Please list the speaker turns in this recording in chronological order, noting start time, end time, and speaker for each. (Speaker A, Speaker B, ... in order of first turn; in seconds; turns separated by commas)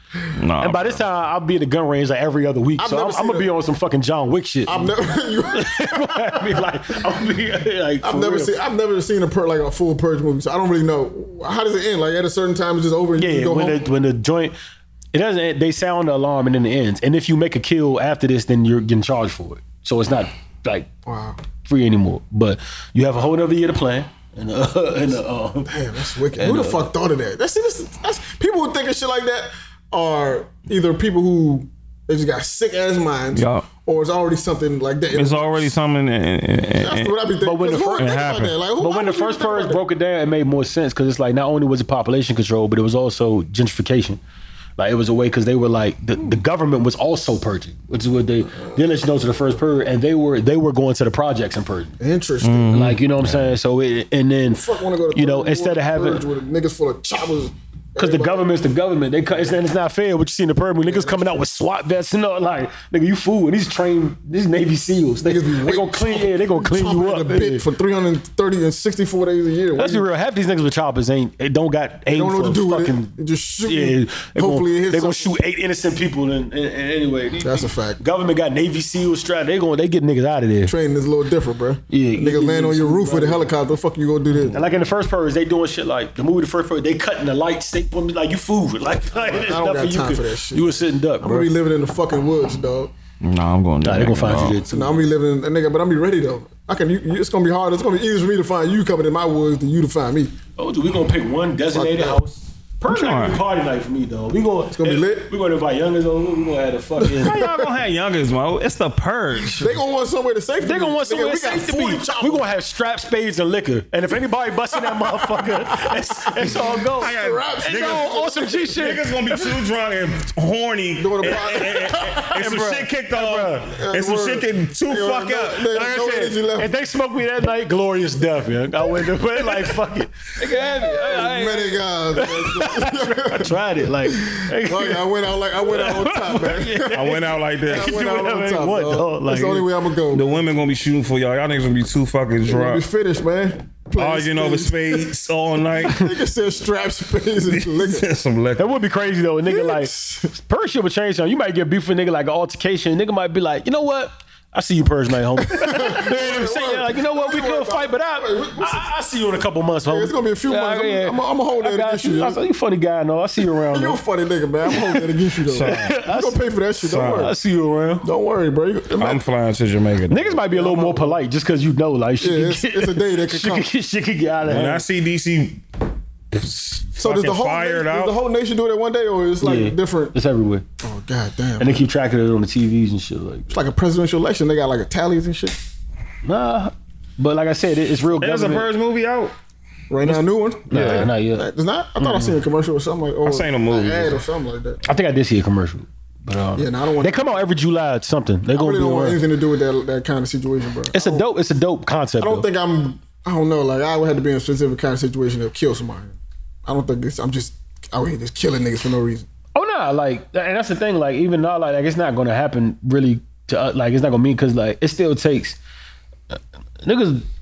Speaker A: 0.4-1.0, Speaker B: 0.6-4.9, Speaker C: 2.8-3.5, Speaker C: 4.7-6.7, Speaker B: 5.5-8.5, Speaker C: 8.0-13.8, Speaker B: 13.2-14.6, Speaker B: 15.1-20.9, Speaker C: 21.1-21.4, Speaker B: 21.6-25.8, Speaker C: 25.7-35.8, Speaker B: 26.4-26.9, Speaker A: 33.4-33.7, Speaker A: 35.1-37.1, Speaker C: 36.8-39.8, Speaker B: 37.4-38.2, Speaker A: 38.0-38.6, Speaker B: 38.8-44.2, Speaker B: 44.8-51.9, Speaker C: 52.0-52.8, Speaker A: 52.4-53.0, Speaker B: 52.7-56.2, Speaker C: 54.5-58.5, Speaker B: 58.0-67.6, Speaker C: 60.8-61.4, Speaker C: 65.2-70.1, Speaker B: 69.8-80.7, Speaker C: 72.1-75.4, Speaker C: 77.4-78.0, Speaker C: 80.7-84.6, Speaker B: 81.9-83.5, Speaker B: 84.5-91.5, Speaker C: 89.2-92.9, Speaker A: 93.2-94.6, Speaker B: 93.8-95.0, Speaker C: 94.7-100.3, Speaker B: 100.6-107.6, Speaker C: 101.7-102.2, Speaker A: 102.9-103.4, Speaker C: 104.7-105.3, Speaker C: 107.0-107.5, Speaker A: 107.2-109.7, Speaker C: 109.5-112.5, Speaker B: 110.6-119.5, Speaker C: 114.8-118.9, Speaker A: 117.0-125.7, Speaker C: 121.0-122.3, Speaker B: 122.0-123.8, Speaker C: 123.7-126.7, Speaker B: 125.7-135.1, Speaker C: 130.6-137.1, Speaker B: 135.6-139.7, Speaker A: 136.9-138.0, Speaker C: 137.6-140.4, Speaker A: 140.1-142.8, Speaker C: 142.4-145.1, Speaker A: 144.0-146.1, Speaker C: 145.8-148.1, Speaker A: 147.5-148.7, Speaker B: 148.6-164.0, Speaker C: 149.4-150.3, Speaker C: 155.5-158.9, Speaker C: 159.9-162.4, Speaker C: 163.7-167.3, Speaker B: 164.7-165.1, Speaker A: 165.4-166.0, Speaker B: 165.6-168.1, Speaker A: 166.8-167.3, Speaker C: 168.0-169.2, Speaker A: 169.0-170.4, Speaker B: 170.1-174.8, Speaker C: 170.5-171.2, Speaker C: 172.2-173.7, Speaker A: 174.4-175.6, Speaker A: 176.3-178.1, Speaker C: 177.0-180.1, Speaker B: 179.4-180.6, Speaker C: 180.8-181.8, Speaker B: 181.6-183.5, Speaker C: 183.5-185.6, Speaker B: 186.2-188.7, Speaker A: 188.2-189.3, Speaker C: 189.9-194.8, Speaker B: 190.7-191.5, Speaker A: 190.7-191.1, Speaker B: 192.0-192.3, Speaker A: 193.2-194.2, Speaker B: 194.8-199.2, Speaker C: 196.6-197.4, Speaker C: 198.5-201.2, Speaker B: 200.9-202.5, Speaker C: 202.2-209.3, Speaker B: 209.6-215.6, Speaker B: 216.3-217.2